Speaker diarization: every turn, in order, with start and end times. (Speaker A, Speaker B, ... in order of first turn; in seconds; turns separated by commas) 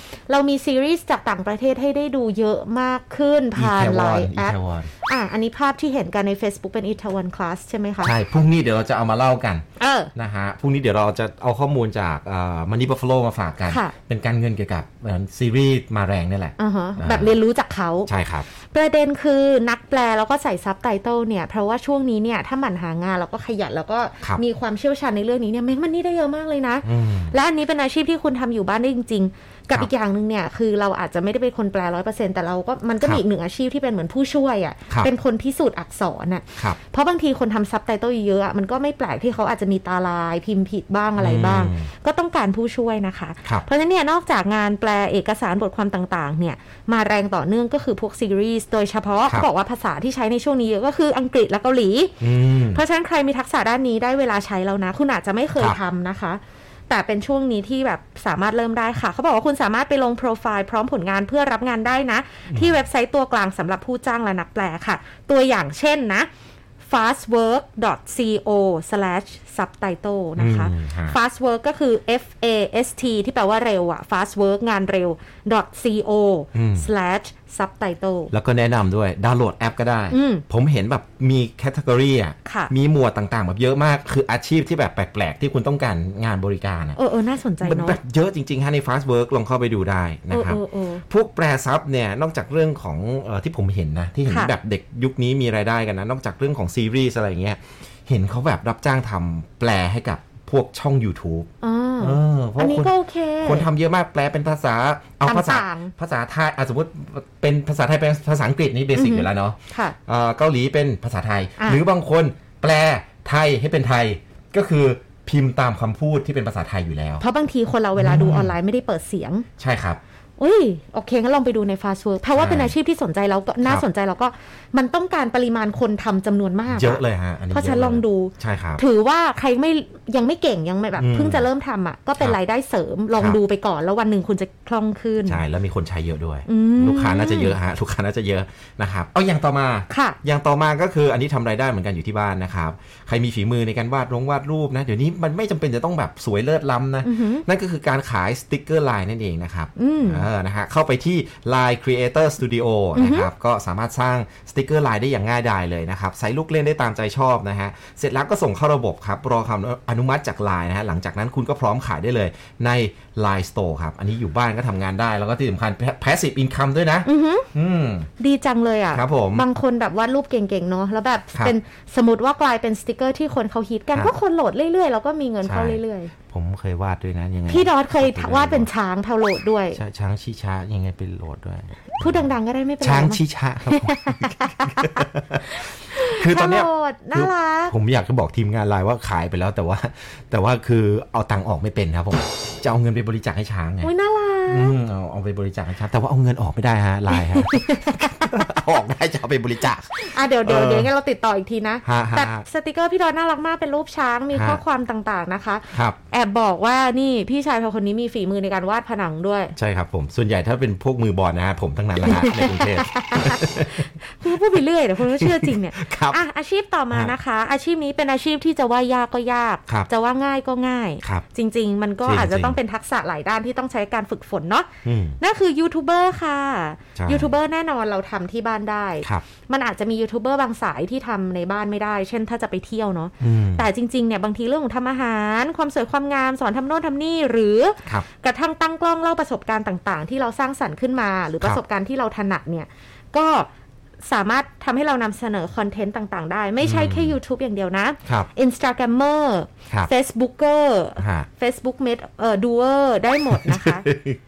Speaker A: 0.3-8.1, Speaker B: 3.5-4.9, Speaker B: 8.0-9.6, Speaker A: 9.8-10.1, Speaker B: 10.1-17.3, Speaker A: 13.7-13.9, Speaker A: 16.6-66.3, Speaker B: 18.1-18.4, Speaker B: 26.8-27.4, Speaker B: 41.2-41.9, Speaker B: 52.2-52.8, Speaker B: 62.5-62.8, Speaker A: 66.8-78.3, Speaker B: 70.4-71.2, Speaker B: 76.5-76.9, Speaker B: 78.3-87.0, Speaker A: 80.1-80.4, Speaker A: 82.4-82.7, Speaker A: 87.0-88.0, Speaker B: 87.6-101.5, Speaker A: 90.3-91.0, Speaker A: 94.3-94.5, Speaker A: 101.6-103.7, Speaker B: 102.0-117.2, Speaker A: 105.2-105.9, Speaker A: 108.9-110.0, Speaker A: 117.2-119.5, Speaker B: 118.0-118.5, Speaker B: 119.6-120.0, Speaker A: 120.4-135.4, Speaker B: 122.3-122.7, Speaker B: 126.7-128.8, Speaker B: 131.0-131.5, Speaker B: 135.2-168.1, Speaker A: 136.4-137.6, Speaker A: 139.9-140.2, Speaker A: 147.0-147.4, Speaker A: 149.8-150.2, Speaker A: 152.9-153.3, Speaker A: 167.0-167.5, Speaker A: 168.2-176.1, Speaker B: 168.9-169.4, Speaker B: 175.4-178.7, Speaker A: 177.5-179.8, Speaker B: 179.7-193.9, Speaker A: 182.0-187.7, Speaker A: 193.8-194.8, Speaker B: 194.5-200.9, Speaker A: 197.1-198.4, Speaker A: 200.0-209.6, Speaker B: 201.8-202.4, Speaker B: 204.3-204.6, Speaker B: 205.7-205.9, Speaker B: 209.6-213.9, Speaker A: 212.0-243.5, Speaker B: 215.0-216.2, Speaker B: 222.0-222.6, Speaker B: 224.8-225.2, Speaker B: 227.0-227.3, Speaker B: 233.2-233.7, Speaker A: 244.0-253.9, Speaker B: 246.6-247.2, Speaker B: 251.0-251.3, Speaker B: 253.3-254.2